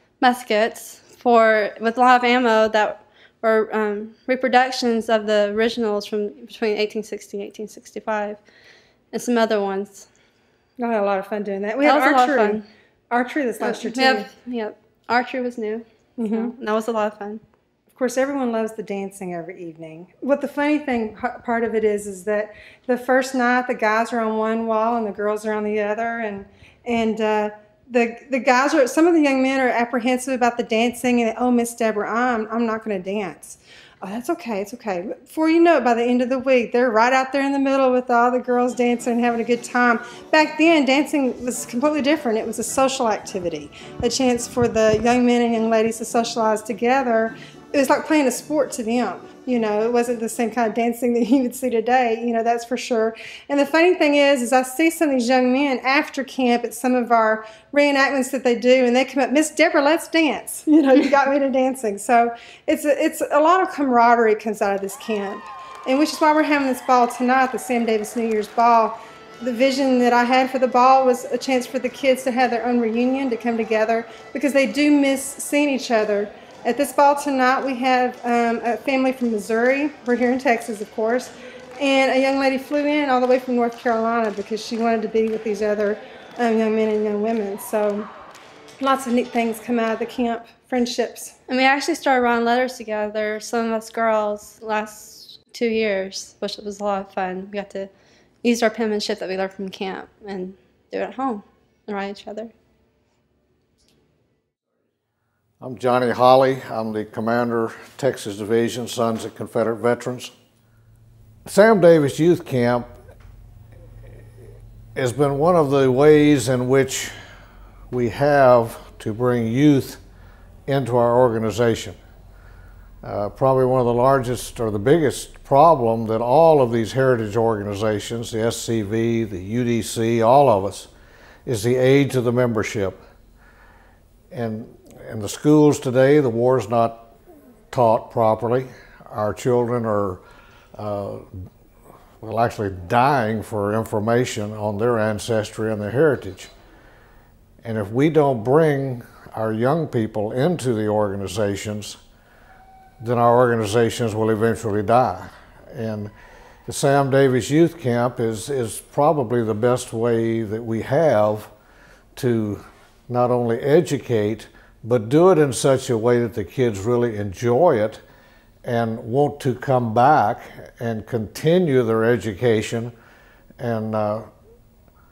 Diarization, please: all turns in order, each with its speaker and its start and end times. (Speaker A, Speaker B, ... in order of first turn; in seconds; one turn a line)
Speaker A: 0.2-8.4
Speaker A: 9.1-10.1
Speaker B: 10.8-14.3
Speaker A: 11.8-12.6
Speaker A: 13.6-15.8
Speaker B: 16.2-16.5
Speaker A: 16.4-17.4
Speaker B: 17.9-88.1
Speaker B: 88.8-91.3
Speaker A: 91.5-97.9
Speaker A: 98.4-102.5
Speaker C: 105.6-110.3
Speaker C: 111.5-113.0
Speaker C: 115.0-117.1
Speaker C: 117.9-120.0
Speaker C: 120.7-122.0
Speaker C: 123.0-130.9
Speaker C: 131.4-133.0
Speaker C: 134.3-137.1
Speaker C: 137.7-140.2
Speaker C: 140.8-141.3
Speaker C: 142.2-146.5
Speaker C: 147.6-152.0
Speaker C: 153.0-156.1
Speaker C: 156.7-161.5
Speaker C: 162.2-168.0
Speaker C: 168.6-172.9
Speaker C: 173.6-174.3